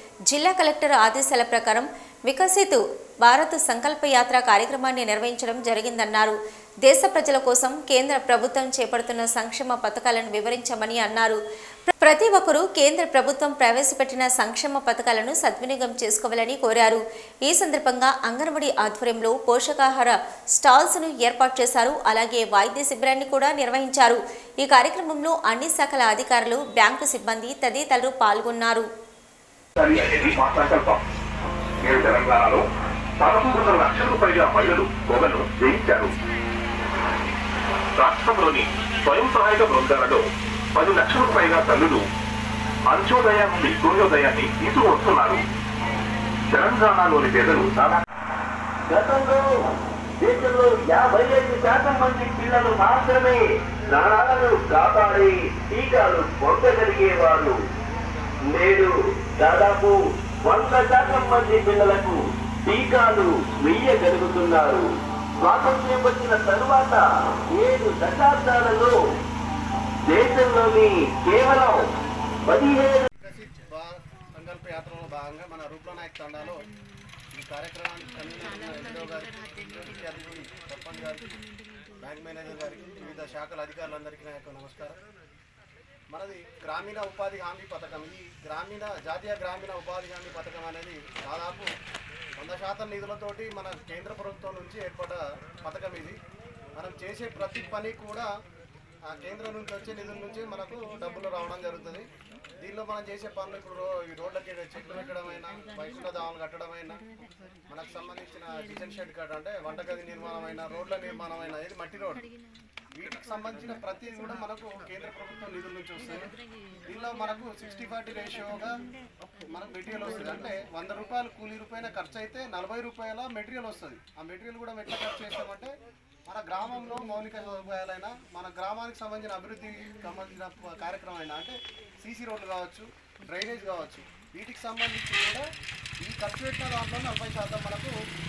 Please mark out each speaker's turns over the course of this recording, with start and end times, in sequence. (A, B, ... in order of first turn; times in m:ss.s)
0:00.3-0:11.4 A
0:11.9-0:28.9 A
0:29.8-0:31.0 B
0:31.8-0:32.7 B
0:33.2-0:36.1 B
0:38.0-0:42.0 B
0:42.9-0:45.4 B
0:46.5-0:47.8 B
0:48.9-0:49.4 C
0:50.2-0:57.6 C
0:54.0-0:54.3 D
0:57.9-0:58.4 D
0:58.5-1:04.9 C
1:05.4-1:08.9 C
1:10.1-1:11.8 C
1:12.5-1:13.1 C
1:13.2-1:16.6 D
1:17.4-1:21.3 D
1:22.0-1:25.0 D
1:26.1-1:31.7 D
1:32.4-1:36.2 D
1:36.8-1:38.3 D
1:39.1-1:42.1 D
1:42.6-1:47.0 D
1:47.7-1:52.2 D
1:53.0-1:56.3 D
1:56.9-1:58.7 D
1:59.5-2:05.7 D
2:06.3-2:15.4 D
2:16.0-2:17.9 D